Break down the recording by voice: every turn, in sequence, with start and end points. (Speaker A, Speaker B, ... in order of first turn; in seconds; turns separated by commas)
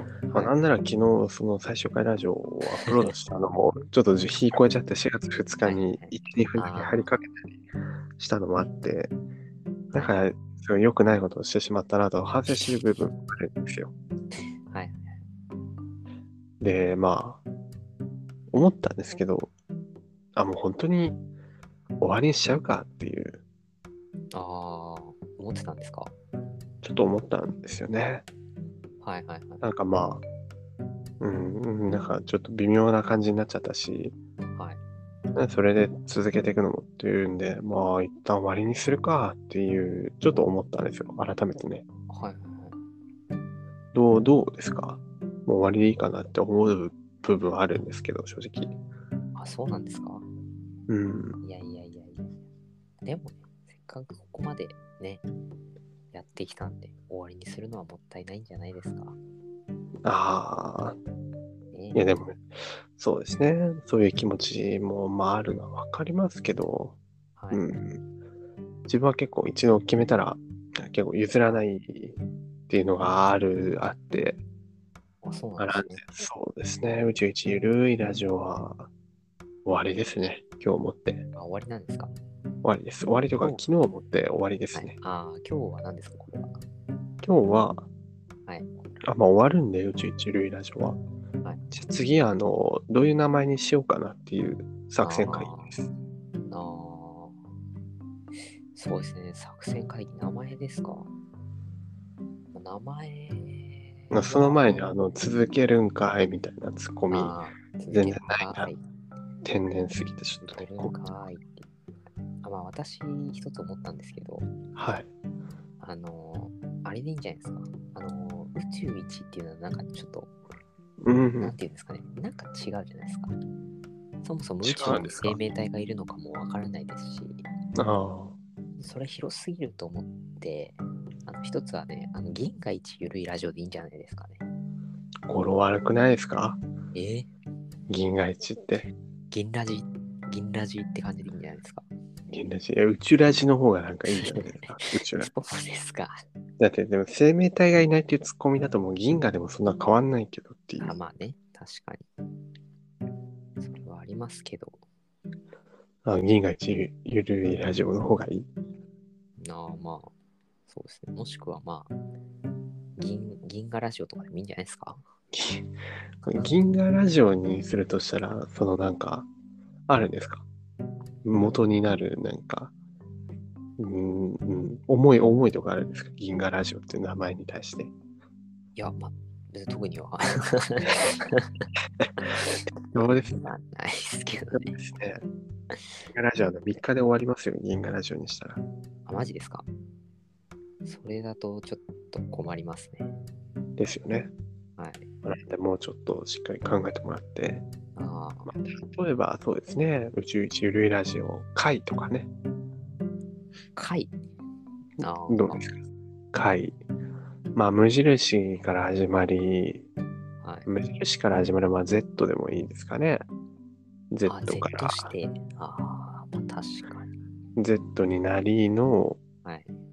Speaker A: 0.3-0.5, Speaker B: 0.3-7.6, Speaker A: 5.6-7.1, Speaker B: 8.2-9.1, Speaker B: 9.9-13.9, Speaker A: 9.9-10.2, Speaker A: 14.7-15.1, Speaker B: 16.6-17.4, Speaker B: 18.5-19.5, Speaker B: 20.4-21.2, Speaker B: 22.0-23.4, Speaker A: 24.3-26.1, Speaker B: 26.8-28.2, Speaker A: 29.0-29.6, Speaker B: 29.6-30.2, Speaker B: 31.2-34.2, Speaker B: 35.4-41.8, Speaker A: 42.1-42.8, Speaker B: 43.9-48.8, Speaker A: 49.3-50.2, Speaker B: 50.9-51.4, Speaker A: 51.4-52.4, Speaker A: 53.0-55.2, Speaker A: 56.1-59.2, Speaker B: 60.0-61.0, Speaker A: 61.7-62.0, Speaker B: 61.9-67.0, Speaker A: 67.4-67.7, Speaker B: 67.5-68.0, Speaker B: 68.9-74.4, Speaker A: 75.2-76.0, Speaker B: 75.6-78.9, Speaker B: 79.6-81.2, Speaker A: 81.3-82.1, Speaker B: 82.6-85.0, Speaker A: 84.7-86.6, Speaker B: 87.2-87.8, Speaker B: 89.1-91.0, Speaker B: 91.7-95.8, Speaker A: 95.0-95.8, Speaker A: 96.5-97.3, Speaker A: 98.7-101.1, Speaker A: 102.5-104.9, Speaker B: 104.1-108.7, Speaker A: 107.1-108.8, Speaker B: 109.4-111.0, Speaker A: 110.5-111.7, Speaker A: 112.4-114.5, Speaker B: 114.7-115.1, Speaker A: 115.8-120.3, Speaker B: 121.0-121.5, Speaker A: 121.4-123.3, Speaker A: 124.2-127.4, Speaker B: 124.6-125.4, Speaker B: 127.8-128.3, Speaker A: 128.8-134.4, Speaker B: 135.3-136.6, Speaker A: 136.9-137.3, Speaker B: 137.9-138.9, Speaker A: 139.3-141.8, Speaker B: 142.3-145.3, Speaker A: 144.1-146.2, Speaker B: 146.6-150.9, Speaker A: 150.8-152.1, Speaker A: 153.6-154.8, Speaker B: 156.0-158.5, Speaker A: 159.4-160.1, Speaker A: 160.7-161.9, Speaker A: 163.0-165.0, Speaker B: 165.3-165.7, Speaker B: 166.2-169.3, Speaker B: 169.9-170.4, Speaker B: 171.2-172.7, Speaker B: 173.8-177.9, Speaker A: 178.8-181.6, Speaker B: 182.9-183.5, Speaker A: 183.2-184.7, Speaker B: 184.5-185.2, Speaker B: 186.1-188.6, Speaker A: 189.1-189.7, Speaker A: 190.8-193.1, Speaker B: 193.8-194.3, Speaker A: 194.8-195.0, Speaker B: 195.2-197.6, Speaker A: 197.9-198.5, Speaker B: 198.4-202.3, Speaker A: 203.8-204.1, Speaker B: 205.0-205.8, Speaker A: 205.0-205.6, Speaker B: 206.3-206.8, Speaker B: 207.5-209.8, Speaker A: 210.4-210.7, Speaker B: 210.7-213.2, Speaker B: 214.1-215.1, Speaker A: 214.2-217.1, Speaker B: 217.6-219.2, Speaker A: 219.4-219.8